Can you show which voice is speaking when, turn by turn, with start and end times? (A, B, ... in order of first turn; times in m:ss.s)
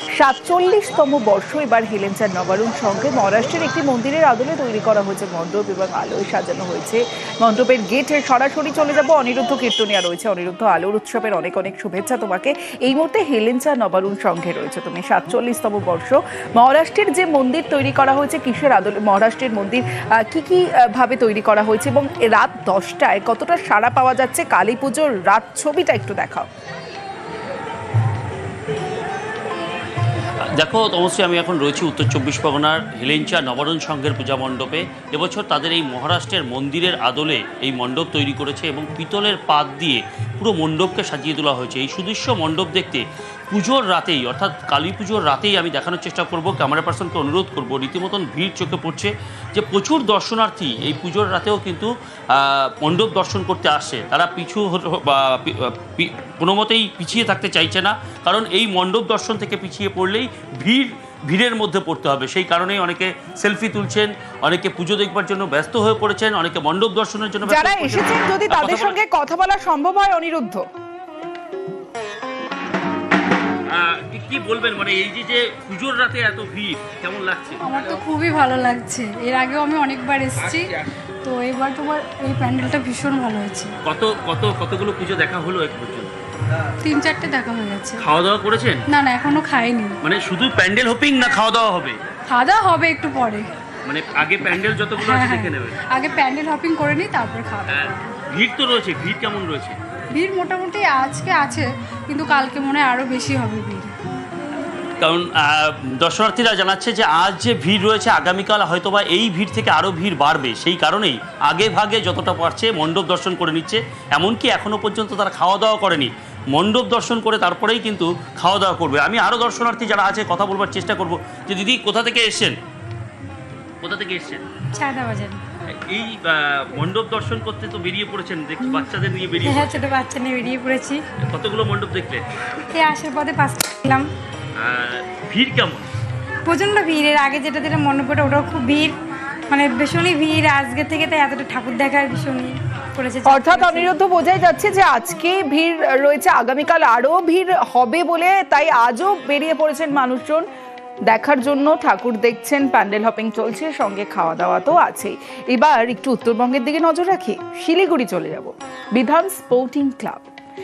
0:00.1-0:26.5 A
0:30.6-1:09.0 B
1:07.4-1:10.6 A
1:13.7-1:17.8 B
1:17.6-1:20.7 C
1:20.4-1:20.7 B
1:21.2-1:23.7 C
1:23.8-1:26.1 B
1:26.8-1:28.0 C
1:28.0-1:28.8 B
1:28.9-1:29.9 C
1:30.0-1:32.0 B
1:32.3-1:33.4 C
1:33.8-1:35.8 B
1:35.0-1:37.9 C
1:37.7-1:39.8 B
1:40.1-1:43.9 C
1:45.0-2:02.5 B
2:03.8-2:04.4 B
2:04.7-2:05.4 C
2:05.9-2:10.1 B
2:09.4-2:11.0 C
2:11.2-2:12.2 B
2:12.7-2:14.1 C
2:14.6-2:15.9 B
2:16.4-2:18.9 C
2:19.5-2:23.9 C
2:23.2-2:30.4 A
2:31.1-2:40.2 A